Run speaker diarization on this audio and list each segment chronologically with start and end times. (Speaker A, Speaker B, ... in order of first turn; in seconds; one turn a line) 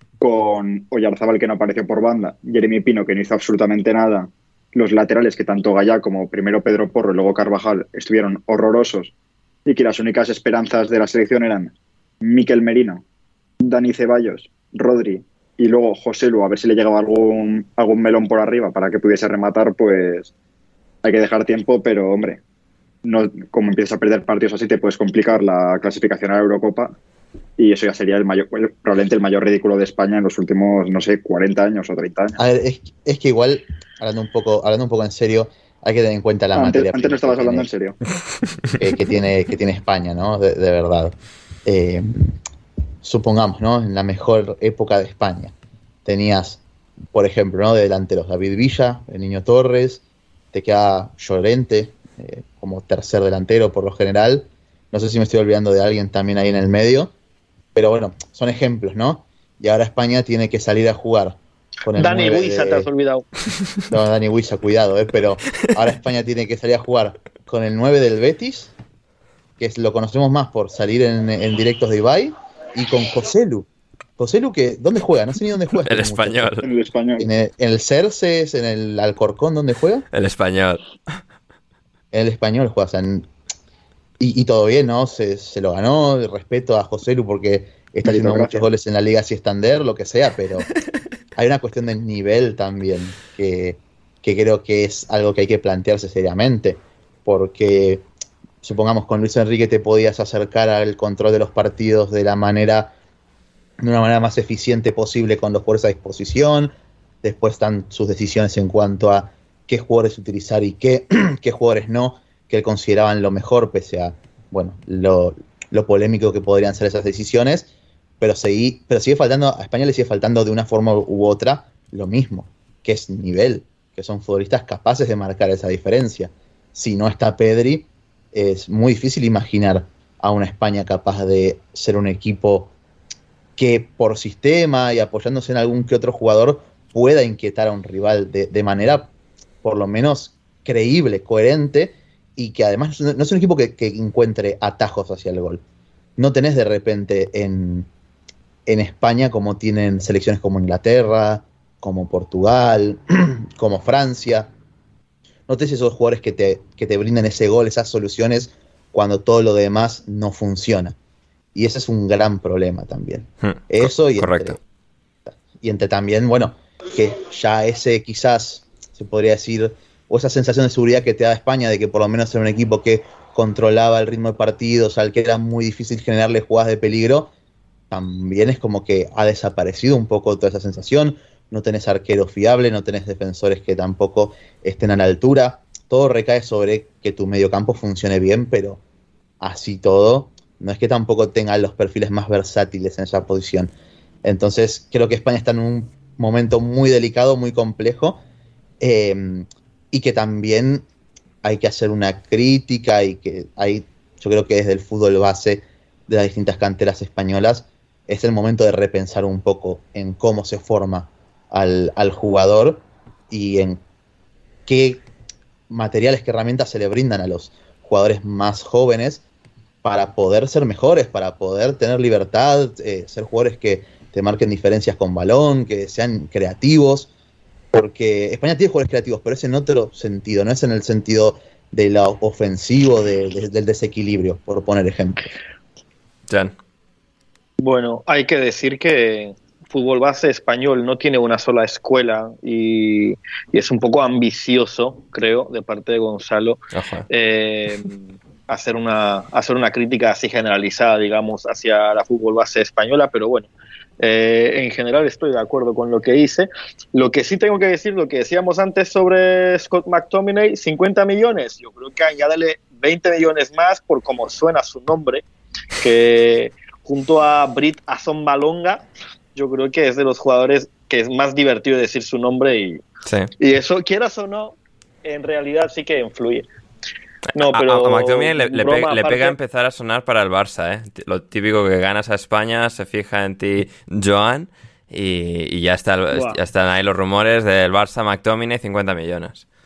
Speaker A: 0.2-9.1
Speaker A: 9.7-13.0
Speaker A: 13.6-20.3
Speaker A: 21.0-22.4
Speaker A: 23.0-26.9
Speaker A: 27.6-32.4
Speaker B: 32.4-37.7
Speaker A: 36.5-38.0
Speaker B: 38.8-42.4
Speaker B: 43.0-45.5
Speaker B: 46.0-50.0
Speaker B: 50.5-57.1
Speaker B: 57.7-62.9
Speaker C: 62.0-63.2
Speaker B: 63.9-68.7
Speaker B: 69.6-73.7
Speaker B: 74.2-76.6
Speaker D: 75.8-76.7
Speaker A: 76.6-77.3
Speaker B: 77.2-80.0
Speaker D: 80.1-80.8
Speaker B: 82.1-83.3
Speaker B: 84.2-90.7
Speaker A: 88.0-88.7
Speaker B: 91.3-98.0
Speaker B: 98.6-102.9
Speaker B: 103.8-117.7
Speaker B: 118.2-132.7
Speaker B: 133.6-139.1
Speaker B: 139.6-145.6
Speaker B: 146.2-147.9
Speaker B: 148.7-154.5
Speaker B: 155.5-160.9
Speaker B: 161.5-164.6
Speaker D: 163.4-164.6
Speaker B: 165.3-177.3
Speaker B: 177.9-188.8
Speaker B: 189.4-193.7
Speaker B: 194.2-198.2
Speaker B: 198.8-200.8
Speaker B: 201.4-213.8
Speaker B: 214.7-215.0
Speaker B: 215.7-219.2
Speaker B: 219.8-227.1
Speaker B: 227.7-235.2
Speaker C: 237.6-265.2
Speaker D: 246.7-247.1
Speaker C: 265.8-272.8
Speaker D: 273.1-273.3
Speaker C: 273.4-276.5
Speaker D: 277.3-289.4
Speaker C: 277.3-279.4
Speaker C: 286.1-286.4